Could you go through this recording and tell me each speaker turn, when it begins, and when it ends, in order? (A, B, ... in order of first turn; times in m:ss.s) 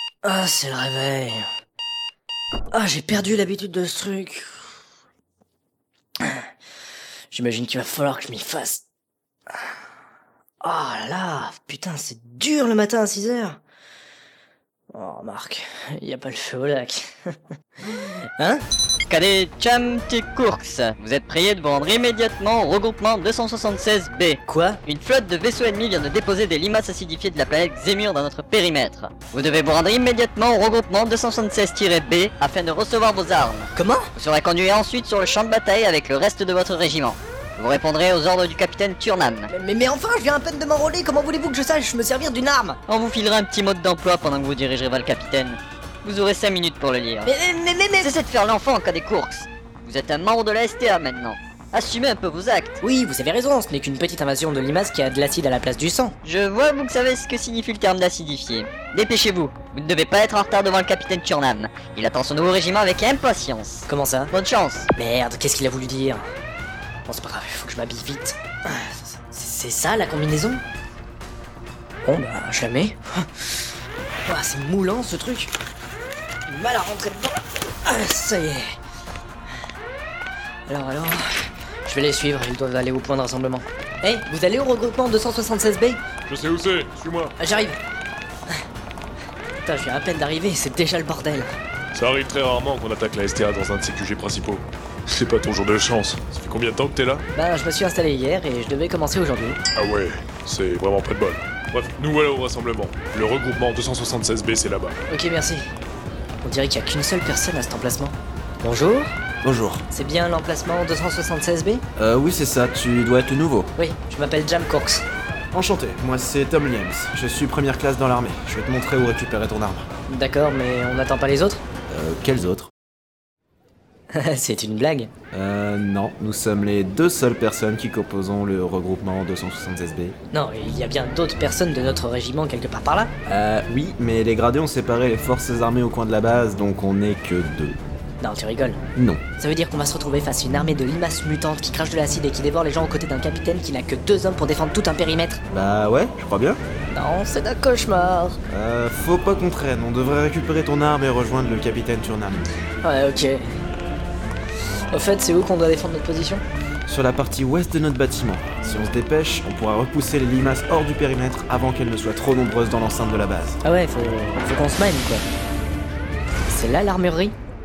0:00.2-0:01.5 A
0:02.7-0:04.5 A
0:07.3-0:08.8 A
0:10.6-0:13.6 A
0:14.9-0:17.1 A
0:18.0-0:18.6 A
0:19.1-0:39.5 B
0:24.5-0:24.8 A
0:33.8-0:34.1 A
0:39.5-0:42.8 A
0:42.9-0:47.3 B
0:47.2-0:48.1 A
0:48.0-0:52.8 B
0:52.8-0:56.2 A
0:56.2-1:04.9 B
1:03.9-1:04.3 A
1:04.9-1:06.2 A
1:07.1-1:10.6 A
1:12.0-1:13.5 A
1:14.3-1:15.5 A
1:16.5-1:18.7 A
1:20.7-1:21.2 A
1:21.8-1:26.0 A
1:26.3-1:27.4 C
1:27.4-1:27.8 A
1:29.6-1:31.5 A
1:31.9-1:37.3 C
1:37.3-1:39.6 A
1:39.8-1:45.0 C
1:45.1-1:45.7 A
1:46.4-1:49.2 A
1:49.4-1:49.9 D
1:49.9-1:51.8 A
1:52.0-1:53.7 D
1:53.8-1:55.0 A
1:55.5-1:59.9 D
2:00.1-2:01.6 A
2:01.9-2:02.7 D
2:04.1-2:05.1 A
2:05.3-2:10.2 D
2:10.3-2:13.1 A
2:13.3-2:17.8 D
2:18.2-2:18.8 A
2:19.0-2:19.2 D
2:19.4-2:25.4 A
2:25.5-2:26.6 D
2:26.9-2:28.4 A
2:28.5-2:32.5 D
2:32.8-2:33.5 A
2:34.9-2:36.4 A
2:36.9-2:43.6 D
2:43.6-2:45.3 A
2:46.5-2:47.4 A